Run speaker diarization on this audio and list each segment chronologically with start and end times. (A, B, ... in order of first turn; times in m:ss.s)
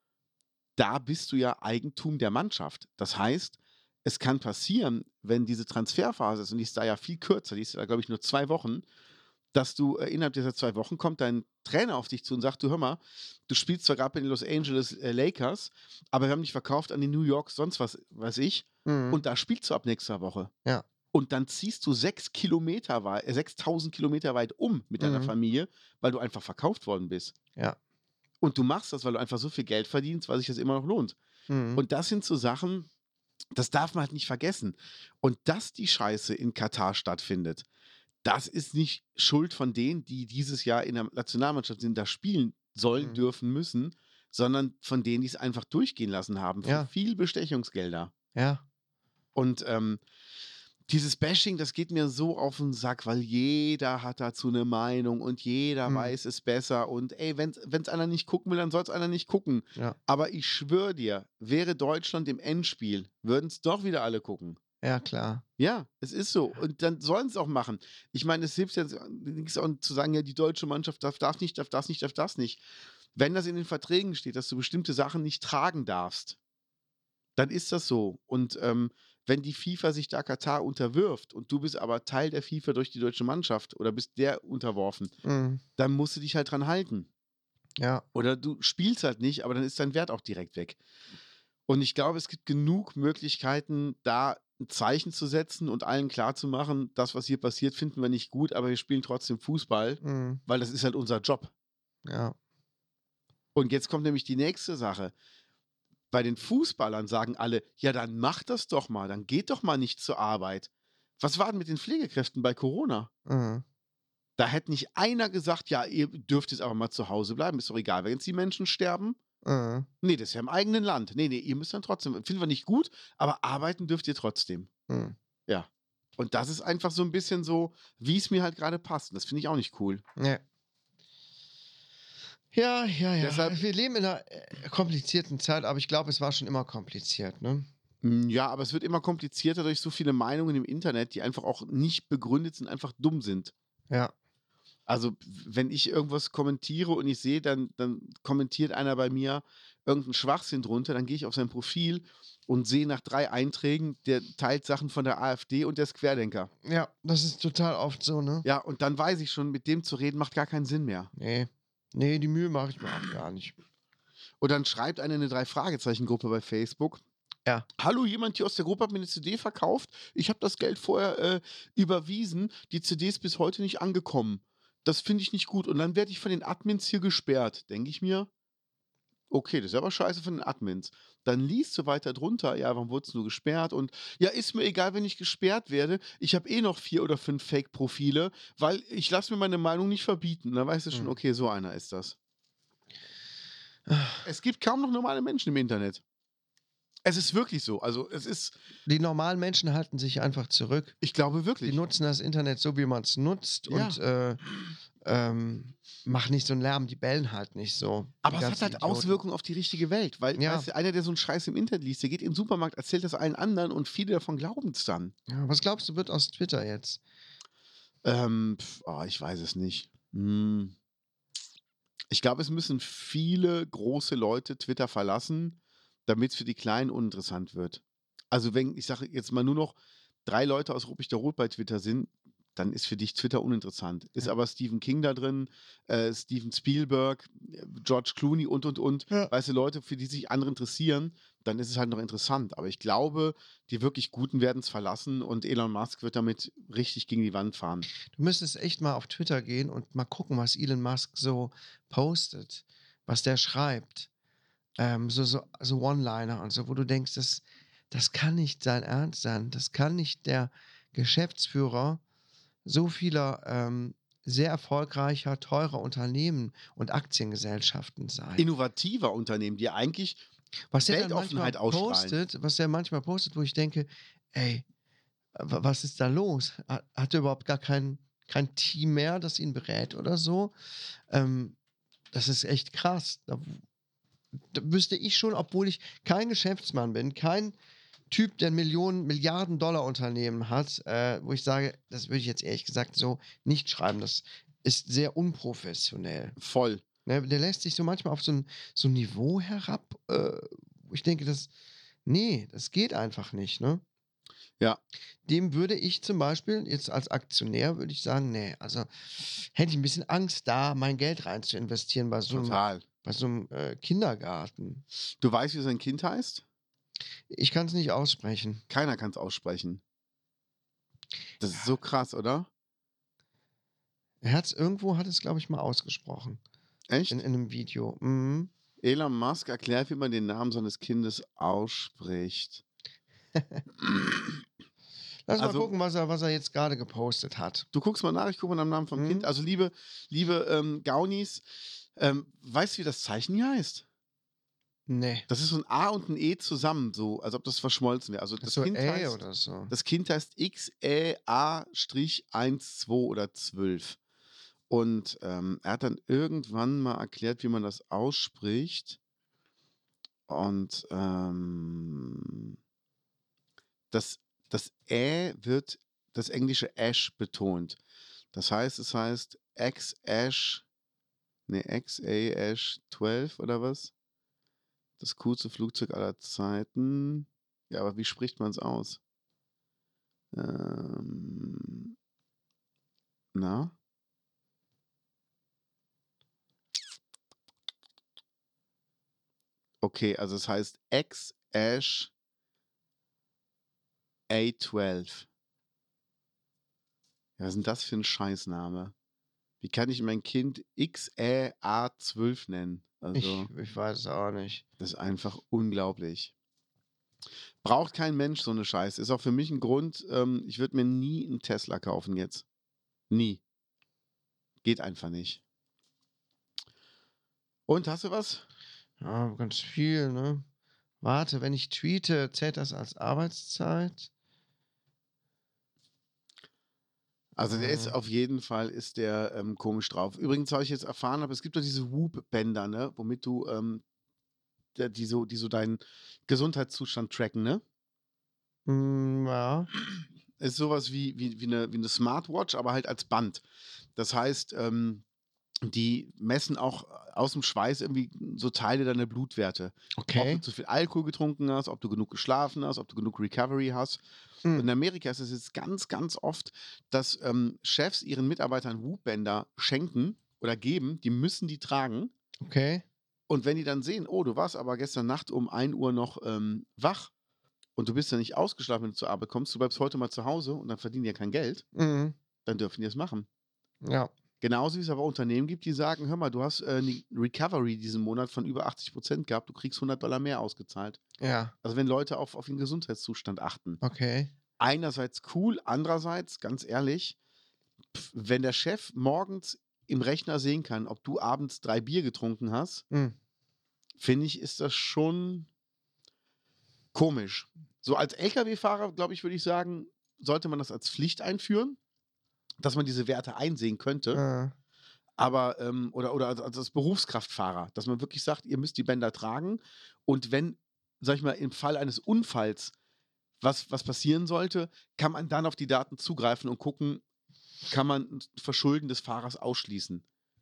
0:00.8-0:08.9 A
0:09.5-0:20.5 A
0:18.9-0:19.2 B
0:21.1-0:27.3 A
0:25.0-0:25.3 B
0:28.4-0:31.2 A
0:31.5-0:31.8 B
0:31.8-0:32.9 A
0:33.5-0:37.6 A
0:38.2-0:48.1 A
0:46.6-0:46.9 B
0:48.4-0:48.6 B
0:49.4-0:50.0 A
0:50.9-1:04.6 A
0:55.9-0:56.1 B
1:04.8-1:05.4 B
1:05.6-1:12.6 A
1:13.1-1:16.4 A
1:17.4-1:25.1 A
1:25.2-1:25.6 B
1:25.8-1:27.1 A
1:27.8-1:28.0 B
1:28.1-1:30.8 A
1:31.7-1:41.5 A
1:40.0-1:40.4 B
1:42.1-1:42.4 B
1:43.6-1:45.1 A
1:46.1-1:53.1 A
1:53.3-1:53.6 B
1:54.4-1:59.2 A
1:59.4-1:59.9 B
2:00.0-2:04.7 A
2:04.9-2:05.2 B
2:05.5-2:10.0 A
2:10.2-2:10.4 B
2:12.5-2:17.7 B
2:13.2-2:13.6 A
2:18.0-2:23.5 A
2:24.9-2:36.5 A
2:36.6-2:38.5 B
2:38.4-2:41.1 A
2:41.2-2:43.6 B
2:44.4-2:47.0 A
2:47.8-2:58.3 A
2:59.3-3:12.2 A
3:13.9-3:14.2 B
3:14.2-3:16.0 A
3:17.0-3:18.6 A
3:18.9-3:21.0 B
3:21.0-3:21.8 A
3:21.6-3:24.4 B
3:23.7-3:24.0 A
3:25.0-3:29.2 B
3:28.2-3:35.1 A
3:30.4-3:30.7 B
3:35.3-3:37.0 B
3:38.0-3:40.8 A
3:42.1-4:07.9 A
4:08.1-4:14.1 B
4:14.8-4:22.0 B
4:22.6-4:28.5 B
4:28.4-4:30.2 A
4:30.7-4:34.6 B
4:30.8-4:32.2 A
4:35.4-4:40.5 B
4:41.1-4:41.6 B
4:42.1-4:43.6 B
4:44.5-4:47.6 B
4:48.1-4:56.4 B
4:56.4-4:56.8 A
4:57.1-5:01.5 B
5:02.1-5:03.8 B
5:05.3-5:14.8 B
5:12.3-5:12.8 A
5:15.2-5:16.4 A
5:17.3-5:18.6 B
5:18.7-5:19.8 A
5:21.4-5:22.5 A
5:24.2-5:26.4 B
5:26.9-5:27.2 A
5:27.1-5:28.5 B
5:28.8-5:32.6 A
5:35.3-5:37.7 B
5:35.4-5:35.7 A
5:37.7-5:41.4 A
5:39.0-5:39.3 B
5:42.0-5:43.8 A
5:44.9-5:45.3 B
5:45.3-5:54.0 A
5:48.4-5:49.7 B
5:54.7-5:59.0 A
6:00.3-6:02.5 A
6:03.9-6:07.8 A
6:08.3-6:10.6 A
6:11.5-6:13.9 A
6:15.0-6:19.0 A
6:20.3-6:21.9 A
6:23.3-6:23.7 A
6:29.8-6:32.1 A
6:34.3-6:35.3 A
6:37.4-6:38.9 A
6:39.6-6:43.5 A
6:43.1-6:44.6 B
6:44.8-6:46.3 A
6:47.6-6:52.4 A
6:53.1-6:53.4 A
6:54.6-6:55.4 A
6:57.7-6:58.4 A
6:59.0-7:00.4 B
7:01.0-7:04.1 B
7:07.4-7:13.8 A
7:07.5-7:08.0 B
7:14.8-7:17.6 A
7:18.7-7:19.7 B
7:20.4-7:23.4 A
7:24.0-7:25.0 A
7:25.6-7:34.0 A
7:30.0-7:30.4 B
7:34.5-7:42.1 A
7:42.4-7:42.8 B
7:43.3-7:47.1 A
7:47.8-7:51.6 A
7:51.8-7:52.2 B
7:52.4-7:53.3 A
7:53.8-7:54.1 B
7:54.4-8:01.0 A
8:01.2-8:01.5 B
8:01.6-8:03.8 A
8:03.8-8:04.3 B
8:04.6-8:07.2 A
8:07.9-8:12.8 A
8:14.0-8:15.5 A
8:16.9-8:21.8 A
8:22.6-8:24.2 A
8:24.1-8:24.5 B
8:25.2-8:32.7 A
8:33.4-8:37.0 A
8:37.7-8:40.0 A